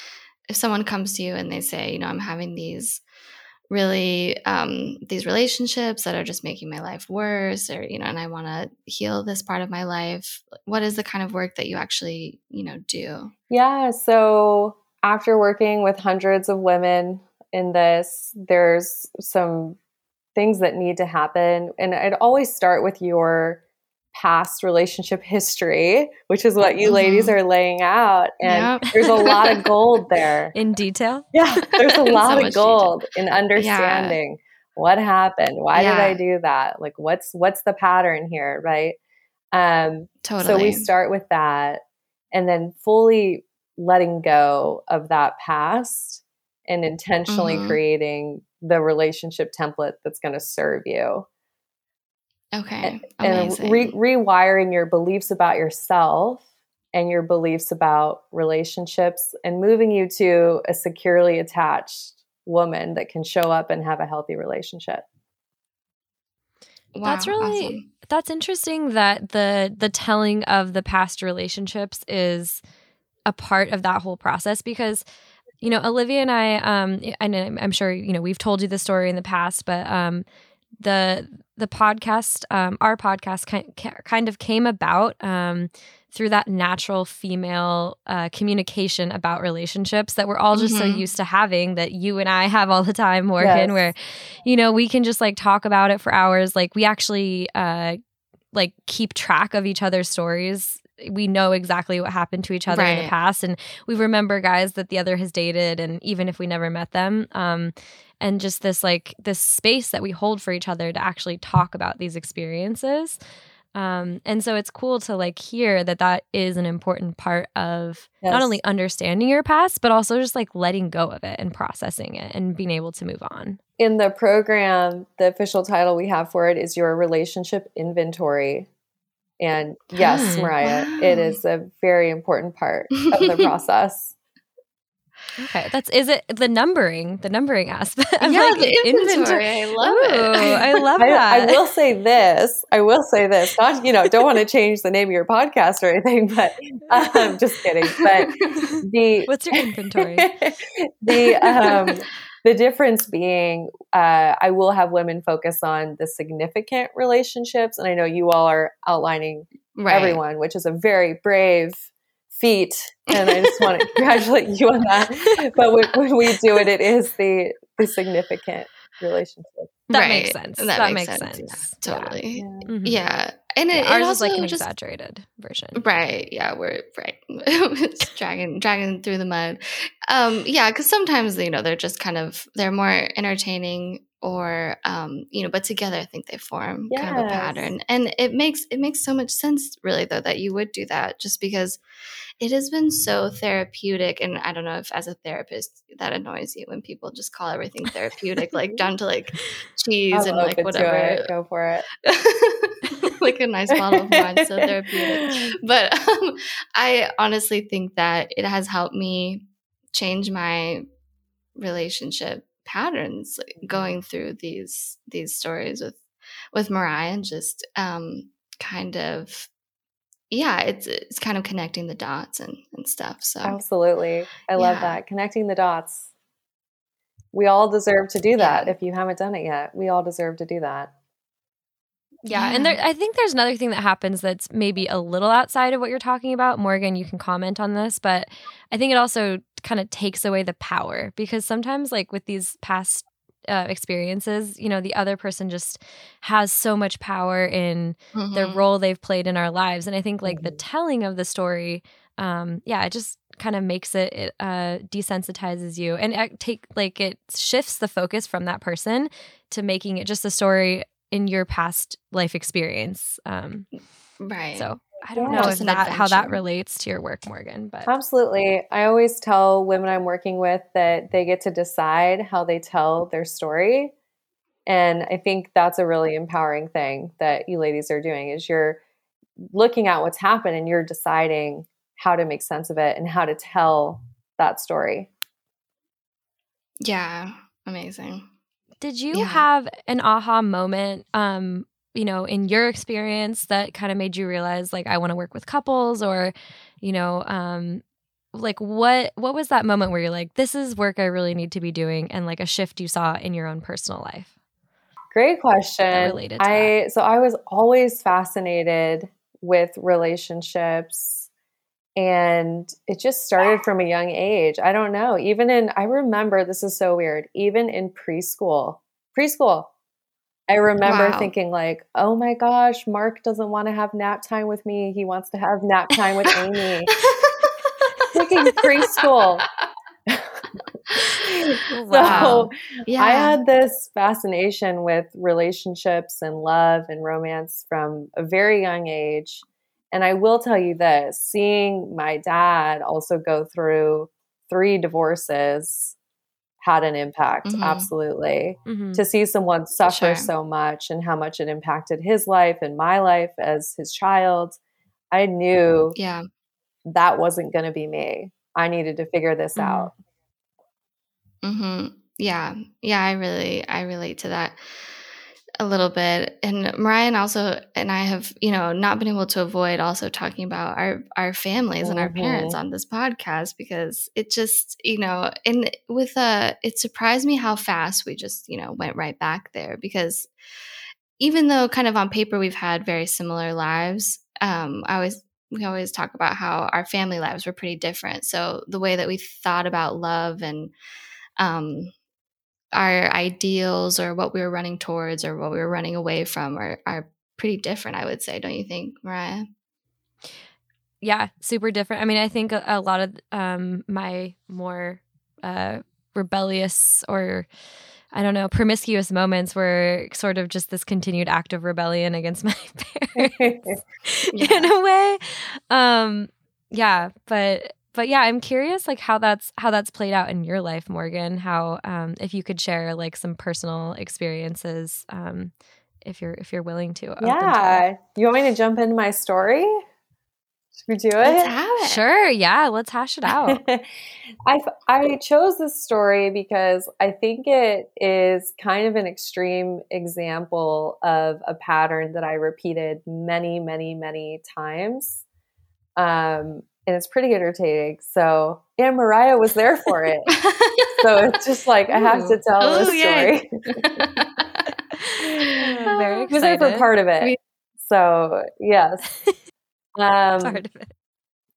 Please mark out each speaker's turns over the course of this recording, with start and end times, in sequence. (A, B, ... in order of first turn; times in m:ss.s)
0:00.5-0:03.0 A
0:03.7-0:13.3 A
0:13.5-0:19.8 B
0:20.4-0:23.6 B
0:24.1-0:30.5 B
0:26.8-0:27.4 A
0:28.4-0:29.6 A
0:30.6-0:31.3 C
0:31.3-0:39.0 B
0:31.7-0:33.0 A
0:33.6-0:34.2 A
0:35.7-0:36.2 A
0:39.5-0:41.8 B
0:40.2-0:40.9 A
0:42.3-0:51.3 B
0:47.3-0:47.8 A
0:52.5-0:54.0 A
0:52.8-1:05.0 B
1:07.0-1:07.8 A
1:07.0-1:12.6 C
1:13.3-1:15.0 C
1:15.6-1:20.2 C
1:20.8-1:38.0 C
1:30.5-1:31.0 A
1:33.4-1:33.9 B
1:38.5-1:53.2 C
1:42.7-1:43.1 A
1:53.8-2:03.6 C
1:58.2-1:58.5 B
2:03.8-2:08.7 B
2:09.4-2:14.1 B
2:10.0-2:11.4 A
2:10.0-2:10.6 C
2:13.0-2:13.5 A
2:15.4-2:21.6 C
2:18.2-2:20.8 A
2:21.0-2:49.7 B
2:28.0-2:28.7 A
2:29.3-2:30.5 C
2:39.8-2:40.2 A
2:43.2-2:43.7 A
2:49.9-2:53.0 C
2:49.9-2:54.6 A
2:52.3-2:52.7 B
2:53.7-2:55.8 C
2:55.8-3:11.8 A
3:06.9-3:07.7 B
3:12.4-3:21.3 A
3:20.1-3:21.8 B
3:22.0-3:30.8 A
3:23.8-3:25.6 B
3:31.6-3:39.5 A
3:40.3-3:43.6 A
3:43.4-3:46.1 B
3:44.6-3:45.0 A
3:47.3-3:50.9 B
3:48.4-3:48.7 A
3:52.2-4:23.7 C
3:52.3-3:52.8 A
4:08.2-4:08.6 A
4:10.3-4:10.6 B
4:24.2-4:24.7 A
4:24.6-4:27.9 C
4:25.2-4:25.7 B
4:25.3-4:26.4 A
4:27.9-4:33.9 B
4:34.7-4:38.8 B
4:39.5-4:45.1 B
4:46.8-4:48.3 A
4:48.8-4:57.8 C
4:49.1-4:49.5 A
4:58.3-5:04.3 C
5:05.1-5:11.3 B
5:05.9-5:06.7 C
5:12.0-5:19.7 B
5:20.5-5:26.9 B
5:20.8-5:21.3 A
5:26.9-5:28.1 A
5:28.1-5:29.4 B
5:30.1-5:46.0 B
5:31.7-5:32.4 C
5:32.0-5:33.4 A
5:46.6-5:54.6 B
5:47.4-5:47.9 A
5:48.7-5:49.0 C
5:49.9-5:50.3 A
5:55.1-5:56.0 B
5:56.0-5:56.3 A
5:56.8-5:59.9 B
5:59.6-5:59.9 A
6:01.4-6:04.6 A
6:05.6-6:20.3 A
6:11.8-6:12.6 B
6:21.2-6:30.7 A
6:31.4-6:31.9 A
6:32.7-6:39.5 A
6:41.0-6:47.5 C
6:48.1-7:07.8 C
6:53.2-6:53.8 B
6:54.3-6:54.7 A
7:07.2-7:09.8 B
7:10.8-7:11.6 B
7:11.2-7:12.0 A
7:11.8-7:13.6 C
7:13.3-7:13.9 B
7:14.4-7:25.2 B
7:26.0-7:30.3 B
7:30.3-7:31.0 A
7:31.0-7:33.5 B
7:31.9-7:32.4 C
7:32.6-7:34.7 A
7:35.1-7:36.9 C
7:35.2-7:39.1 B
7:35.9-7:36.2 A
7:40.0-7:40.6 B
7:40.4-7:40.9 C